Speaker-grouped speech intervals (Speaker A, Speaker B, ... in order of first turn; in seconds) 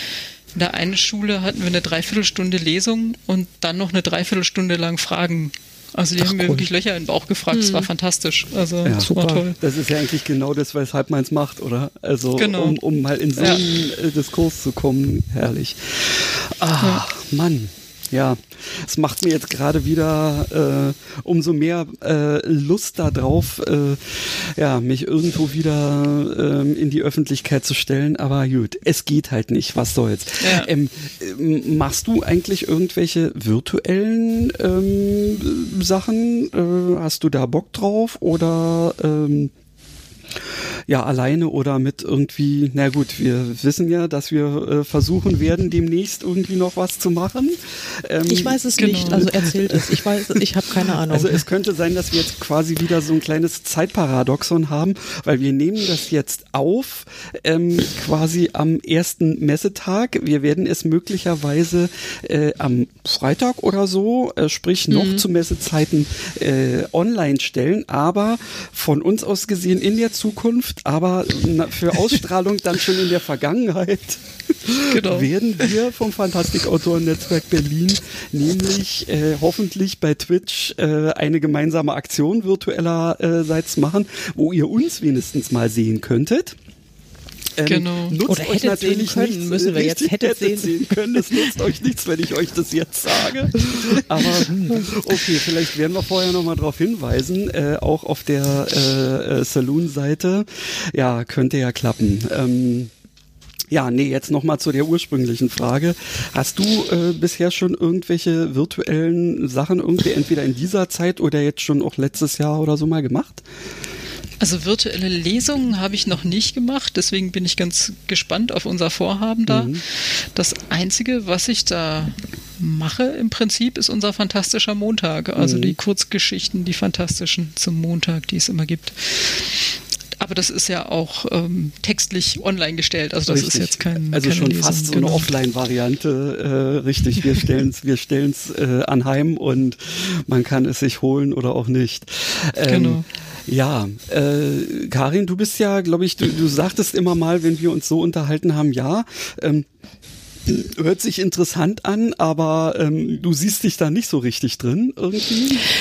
Speaker A: 0.5-9.6, 12.4-12.8, 13.4-13.6, 30.4-30.7, 48.8-49.3, 74.8-75.3, 87.7-88.2, 114.4-135.3, 142.7-143.1
Speaker B: 6.2-6.7, 7.5-7.9, 8.9-9.4, 48.3-51.4, 64.9-65.2, 88.3-91.5, 94.2-94.9
Speaker C: 8.8-39.5, 40.9-50.4, 51.1-86.6, 87.6-102.9, 103.7-113.4, 119.5-119.8, 125.4-125.8, 133.3-149.7, 150.5-155.7